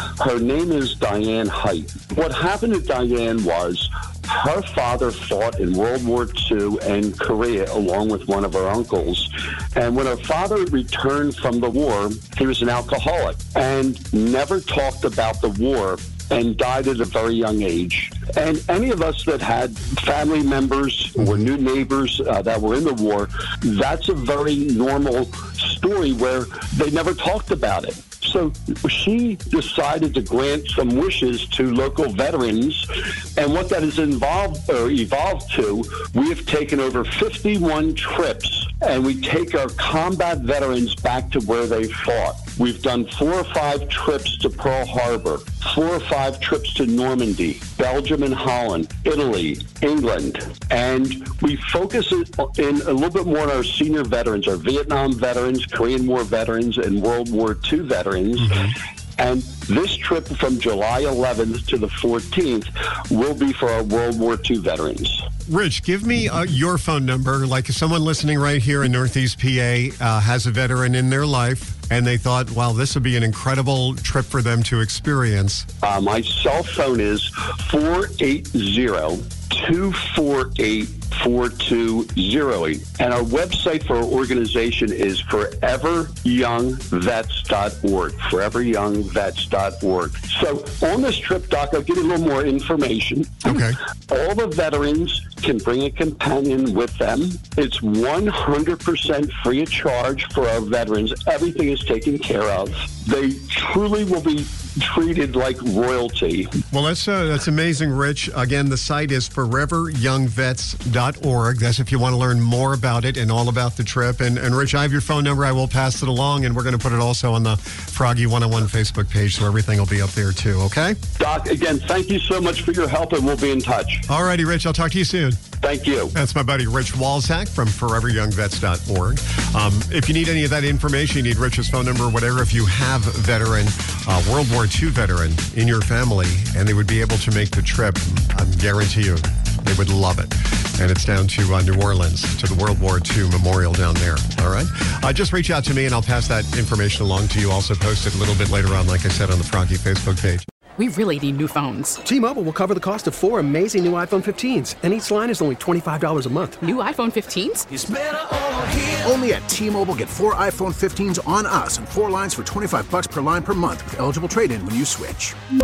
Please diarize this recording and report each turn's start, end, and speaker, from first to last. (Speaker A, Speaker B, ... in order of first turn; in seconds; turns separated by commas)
Speaker A: 0.2-58.7, Speaker B: 58.4-58.8, Speaker A: 59.2-65.3, Speaker B: 65.5-75.7, Speaker A: 75.8-93.5, Speaker B: 93.4-93.8, Speaker A: 94.1-106.5, Speaker B: 106.7-121.0, Speaker A: 121.2-124.0, Speaker B: 124.1-125.4, Speaker A: 125.6-126.1, Speaker B: 126.1-150.4, Speaker C: 150.8-152.0, Speaker D: 152.0-156.7, Speaker C: 156.6-157.7, Speaker E: 157.7-165.3